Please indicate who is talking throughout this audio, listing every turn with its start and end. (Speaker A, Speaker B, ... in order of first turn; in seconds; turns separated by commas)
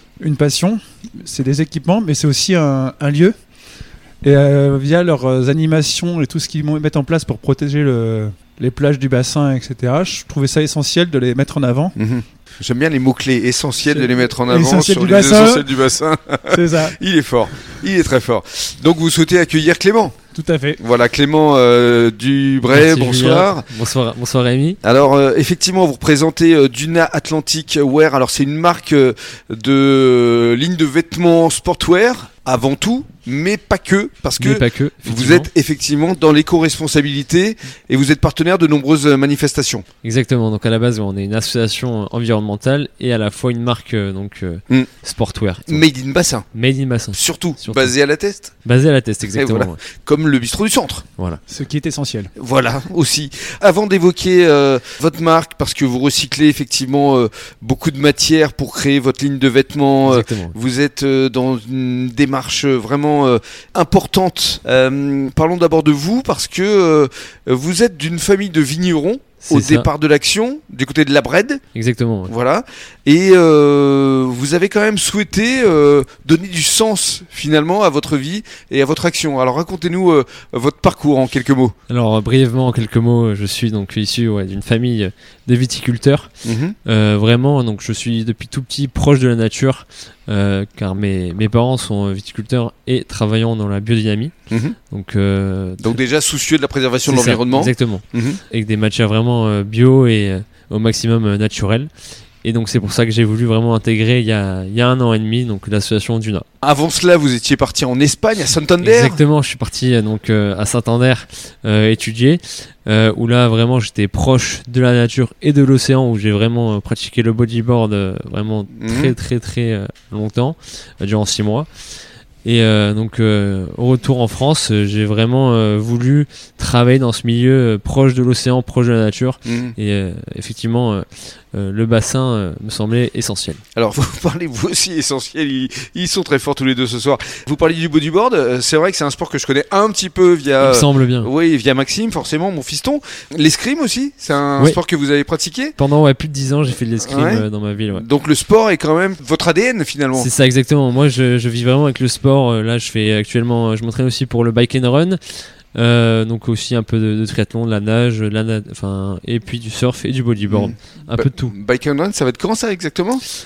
Speaker A: 0.2-3.4, Speaker A: 4.2-11.9, Speaker B: 12.0-20.1, Speaker A: 13.9-15.7, Speaker A: 16.5-17.0, Speaker A: 20.4-20.8, Speaker B: 20.8-23.6, Speaker C: 22.7-24.8, Speaker B: 24.8-39.9, Speaker C: 34.4-35.5, Speaker C: 40.0-45.8, Speaker B: 45.7-46.5, Speaker C: 46.5-47.9, Speaker B: 47.1-48.5, Speaker C: 48.6-49.8, Speaker B: 49.3-51.0, Speaker A: 51.5-52.3, Speaker B: 52.4-71.6, Speaker C: 60.1-60.5, Speaker C: 69.4-69.9, Speaker C: 71.8-72.3, Speaker B: 72.3-81.8, Speaker C: 81.9-86.3, Speaker B: 86.4-86.8, Speaker C: 86.9-94.3, Speaker B: 94.5-94.8, Speaker C: 94.9-96.0, Speaker B: 95.8-98.4, Speaker C: 97.1-101.9, Speaker C: 102.4-106.5, Speaker B: 106.6-109.2, Speaker C: 108.8-121.7, Speaker B: 118.8-119.2, Speaker C: 122.5-133.6, Speaker B: 129.5-129.8, Speaker B: 133.8-145.8, Speaker C: 140.6-141.3, Speaker C: 145.8-148.0, Speaker B: 147.0-150.3, Speaker C: 150.2-155.2, Speaker C: 155.8-161.5, Speaker B: 160.5-163.2